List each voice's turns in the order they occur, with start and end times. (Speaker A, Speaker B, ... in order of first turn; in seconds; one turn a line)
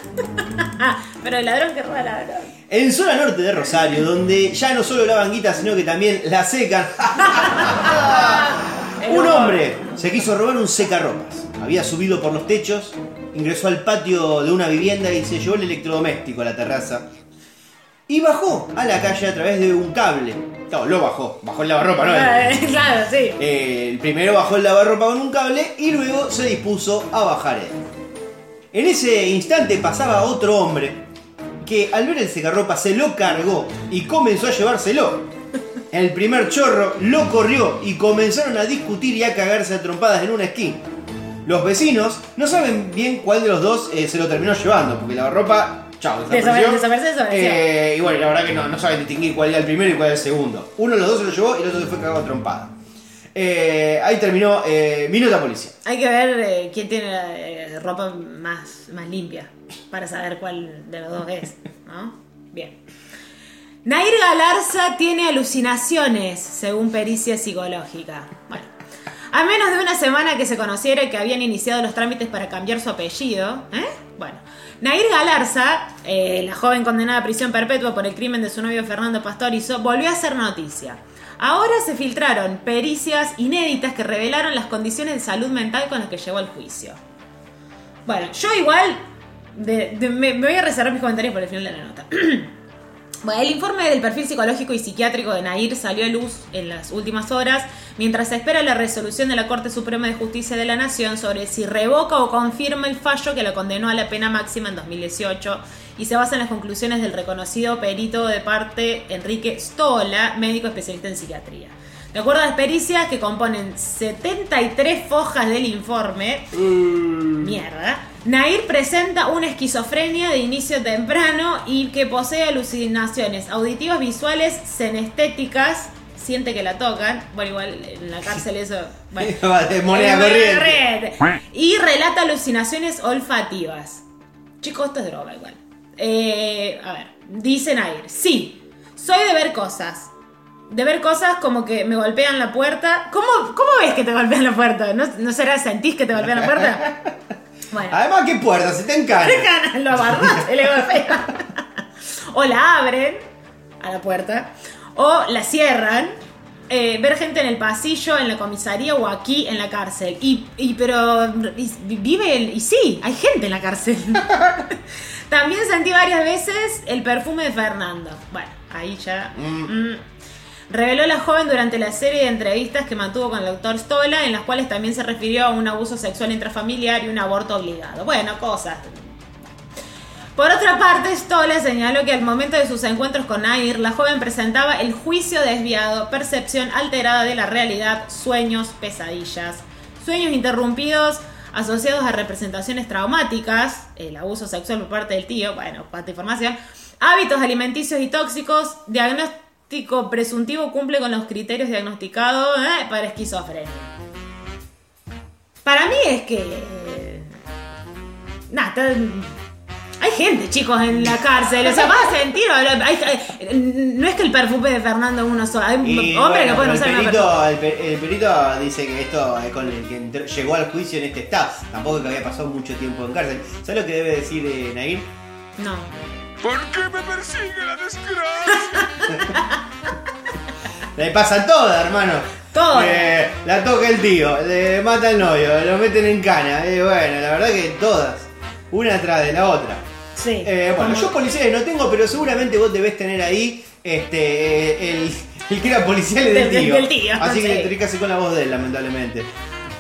Speaker A: 0.2-2.5
Speaker B: 2.7-17.1
Speaker A: 7.5-9.9
Speaker B: 18.1-22.4
Speaker A: 22.0-23.4
Speaker B: 23.4-27.8
Speaker B: 28.7-31.0
Speaker B: 31.6-35.3
Speaker B: 35.9-40.8
Speaker B: 41.5-52.7
Speaker A: 46.3-47.6
Speaker B: 53.3-55.7
Speaker A: 55.9-62.8
Speaker A: 63.9-68.7
Speaker A: 69.3-87.0
Speaker A: 88.1-89.0
Speaker A: 89.5-92.5
Speaker A: 93.2-116.5
Speaker B: 116.6-117.5
Speaker A: 117.4-129.3
Speaker B: 129.2-130.8
Speaker A: 129.9-134.0
Speaker A: 134.6-140.1
Speaker A: 140.7-146.9
Speaker B: 146.2-147.1
Speaker A: 147.7-148.0
Speaker B: 147.9-149.5
Speaker A: 149.2-151.6
Speaker B: 150.2-150.4
Speaker A: 152.3-153.2
Speaker A: 153.8-156.2
Speaker A: 156.7-164.8
Speaker A: 165.3-170.0
Speaker B: 169.4-169.7
Speaker A: 170.7-179.1
Speaker A: 180.4-203.9
Speaker A: 205.7-207.3
Speaker A: 208.5-209.4
Speaker A: 210.0-217.4
Speaker B: 215.8-225.1
Speaker A: 225.6-225.9
Speaker C: 226.4-228.8
Speaker A: 228.7-229.6
Speaker B: 231.0-239.8
Speaker A: 232.5-233.1
Speaker A: 240.2-241.1
Speaker B: 240.4-249.3
Speaker A: 246.3-247.7